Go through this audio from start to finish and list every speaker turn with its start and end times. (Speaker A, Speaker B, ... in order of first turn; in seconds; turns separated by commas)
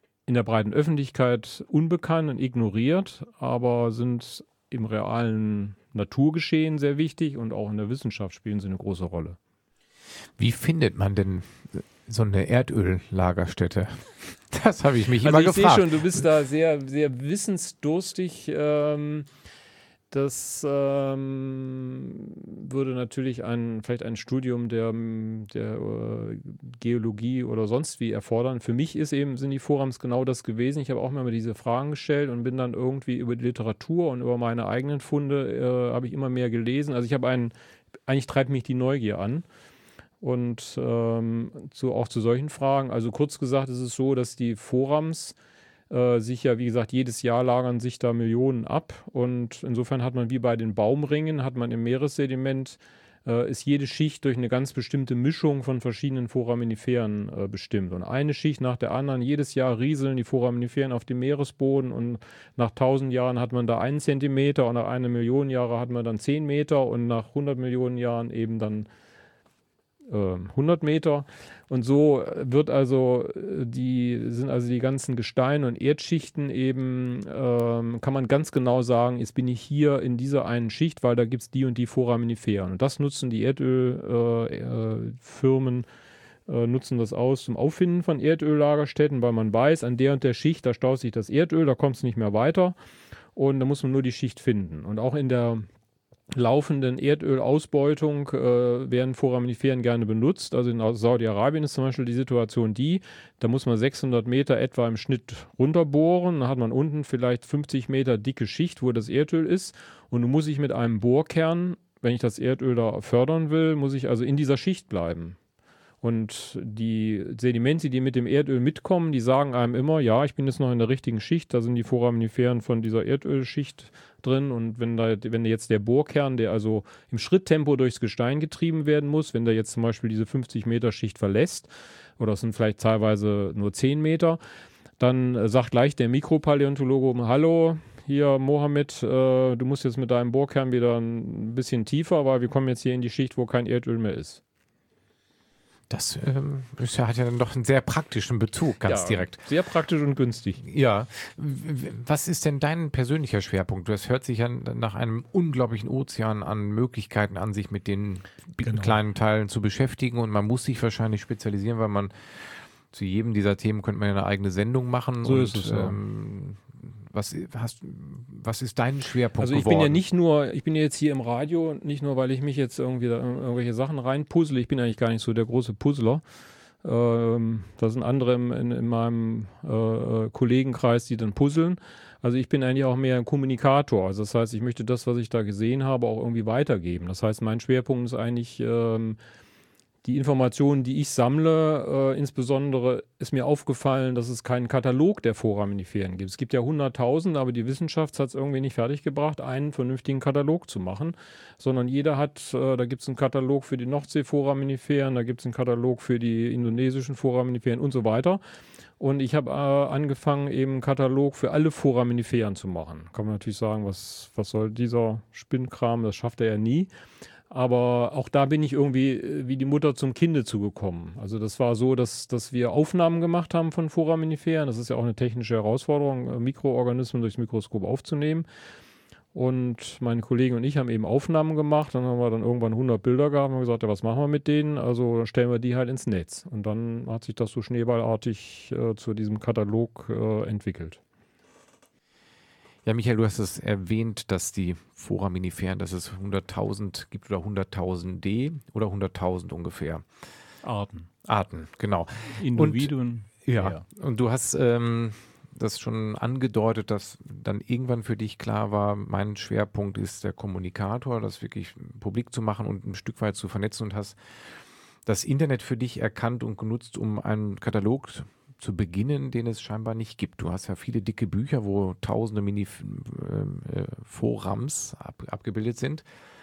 Speaker A: 0.3-9.4, Speaker B: 10.4-15.9, Speaker A: 15.2-19.3, Speaker A: 20.1-37.5, Speaker A: 38.1-39.4, Speaker A: 40.2-45.4, Speaker A: 45.9-68.9, Speaker A: 70.1-85.9, Speaker A: 86.5-92.7, Speaker A: 93.3-95.7, Speaker A: 96.3-115.4, Speaker A: 116.0-134.4, Speaker A: 135.0-144.4, Speaker B: 145.9-149.4, Speaker A: 148.8-150.6, Speaker B: 150.6-170.0, Speaker A: 158.6-159.0, Speaker A: 165.2-166.0, Speaker A: 169.4-176.2, Speaker A: 176.8-189.2, Speaker A: 190.0-208.4, Speaker A: 209.0-216.9, Speaker A: 217.5-228.5, Speaker A: 229.3-241.0, Speaker B: 242.8-250.0, Speaker A: 250.6-251.1, Speaker B: 251.2-252.9, Speaker A: 252.3-253.8, Speaker B: 253.4-264.5, Speaker B: 265.0-276.0